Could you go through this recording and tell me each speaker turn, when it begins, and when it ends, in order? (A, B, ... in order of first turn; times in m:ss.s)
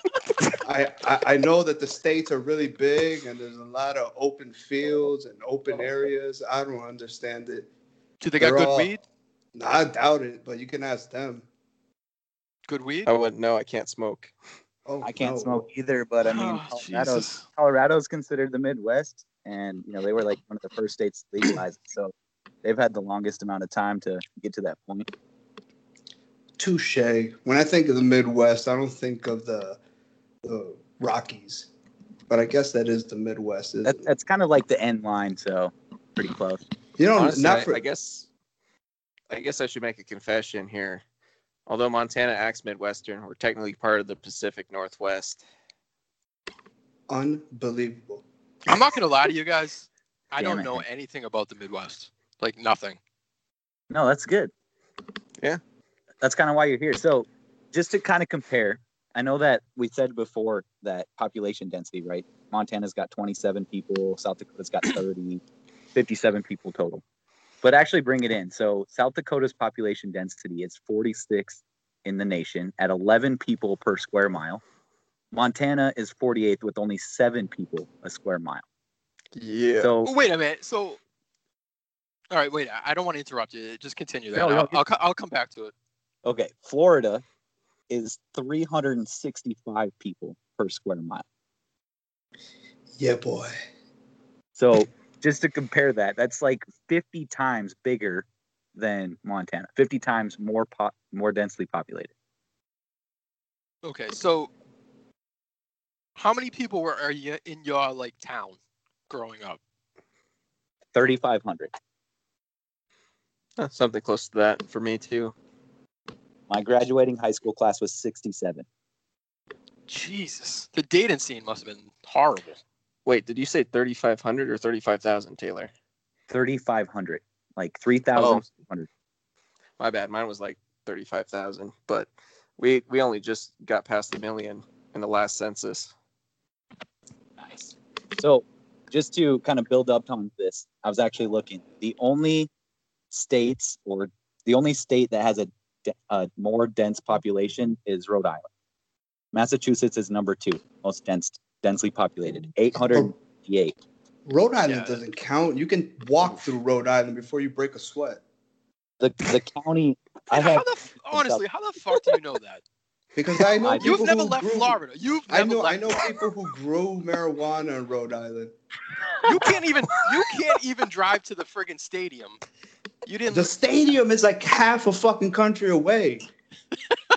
0:00.6-0:07.7 A
0:05.7-0:06.1 B
0:08.2-0:09.0 C
0:08.4-0:08.9 A
0:09.5-0:11.5 A
0:12.7-0:13.1 C
0:13.0-0:14.3 D
0:14.8-0:15.7 A
0:15.0-0:22.1 B
0:16.2-0:17.4 C
0:22.6-0:25.1 B
0:26.6-0:29.8 A
0:30.4-0:31.7 A
0:32.3-0:34.1 A
0:33.8-0:36.6 B
0:37.0-0:37.8 A
0:37.1-0:38.3 D
0:39.3-0:41.0 D
0:41.7-0:45.4 D
0:47.1-0:48.2 A
0:48.6-0:53.0 C
0:50.4-0:50.8 B
0:53.9-0:54.5 B
0:56.2-1:05.4 B
1:05.9-1:07.0 B
1:07.6-1:14.6 B
1:15.3-1:18.6 B
1:19.3-1:19.9 D
1:19.8-1:20.1 B
1:20.0-1:21.0 C
1:22.3-1:25.7 C
1:24.3-1:24.8 B
1:26.2-1:27.2 B
1:27.9-1:31.2 B
1:33.0-1:33.5 A
1:34.5-1:42.1 B
1:43.8-1:44.5 C
1:46.2-1:48.6 C
1:49.1-1:49.6 C
1:50.9-1:51.7 B
1:53.6-1:55.3 D
1:56.5-1:58.6 B
1:59.9-2:02.6 C
2:03.0-2:05.7 D
2:06.3-2:08.9 B
2:08.1-2:08.4 D
2:09.8-2:15.9 D
2:17.4-2:22.5 B
2:23.1-2:28.5 B
2:29.3-2:33.8 B
2:34.2-2:38.2 A
2:34.7-2:35.0 C
2:39.0-2:41.4 B
2:40.3-2:42.6 C
2:43.1-2:48.5 A
2:43.6-2:44.1 B
2:43.8-2:46.1 C
2:49.2-2:52.4 C
2:53.0-2:53.5 C
2:53.3-2:56.2 A